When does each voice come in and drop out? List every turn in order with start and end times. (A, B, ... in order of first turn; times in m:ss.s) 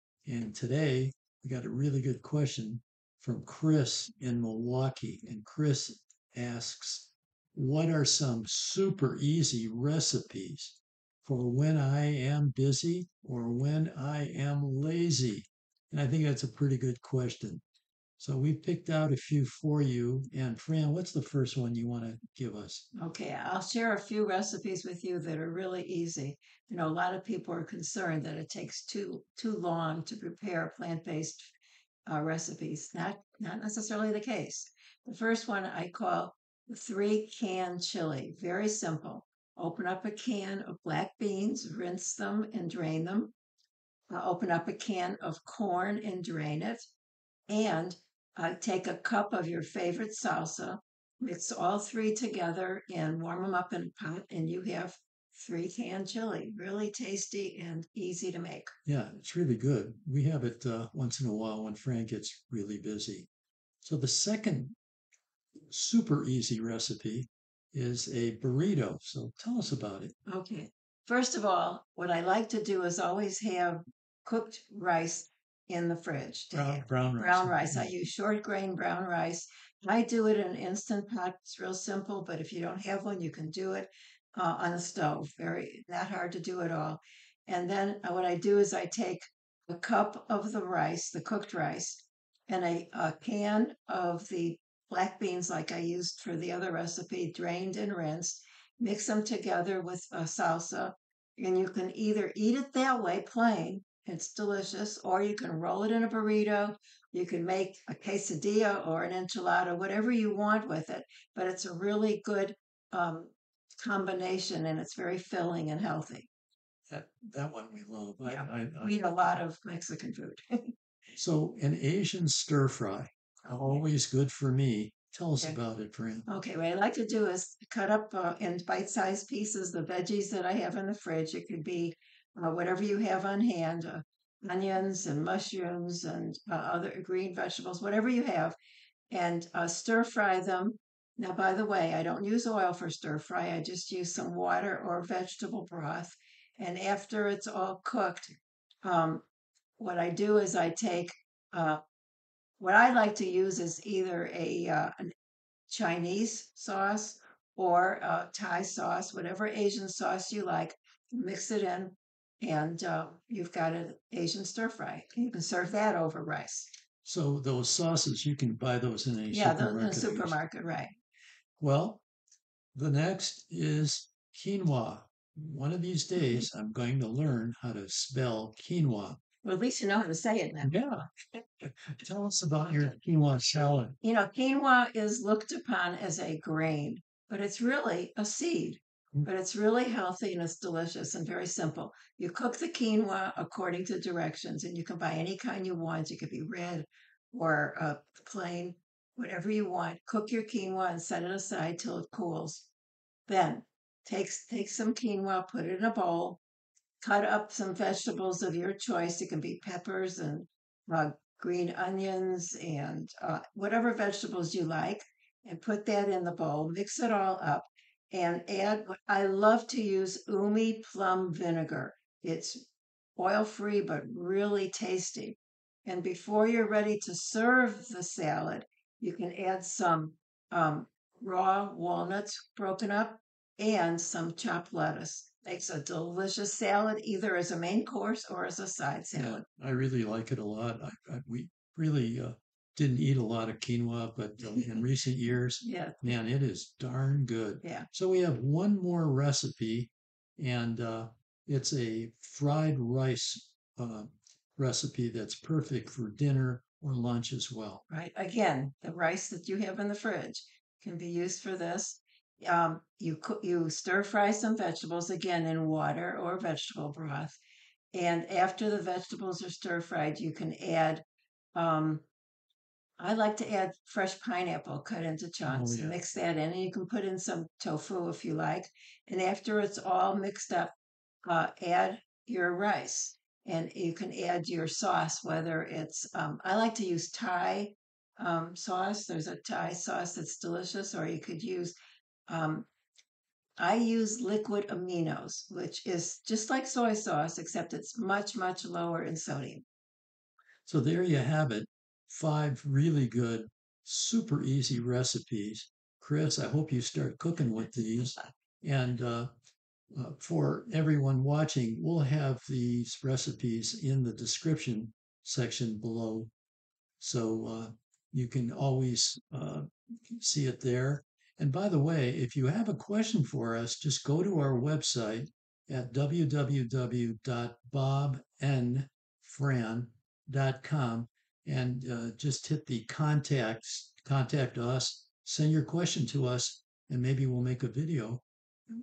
0:00.2-0:17.6 A
0:18.2-0:22.8 A
0:23.0-0:31.5 B
0:32.1-0:43.3 B
0:44.1-0:46.9 B
0:47.5-0:58.7 B
0:58.9-1:03.3 A
1:03.8-1:04.7 A
1:05.6-1:10.1 A
1:10.3-1:56.3 B
1:16.5-1:17.9 A
1:56.9-1:59.0 A
1:58.2-2:00.7 B
2:01.2-2:06.2 A
2:06.3-2:18.6 B
2:19.1-2:29.2 B
2:29.8-2:31.8 B
2:32.6-2:35.1 B
2:35.7-2:46.7 B
2:47.0-2:50.4 A
2:49.3-2:50.9 B
2:51.6-2:52.0 A
2:52.7-2:59.2 A
2:59.4-3:00.8 B
3:00.6-3:01.0 A
3:01.6-3:04.0 A
3:04.0-3:22.7 B
3:23.3-3:26.4 B
3:27.0-3:59.4 B
3:59.1-4:17.8 A
4:05.6-4:06.1 B
4:07.6-4:07.9 B
4:17.9-4:27.4 B
4:27.9-4:31.0 B
4:31.5-4:32.0 B
4:33.0-4:40.7 B
4:35.4-4:36.0 A
4:41.2-4:51.7 B
4:52.3-4:52.7 B
4:53.6-4:59.6 B
5:00.6-5:09.3 A
5:09.9-5:16.3 A
5:17.0-5:38.2 A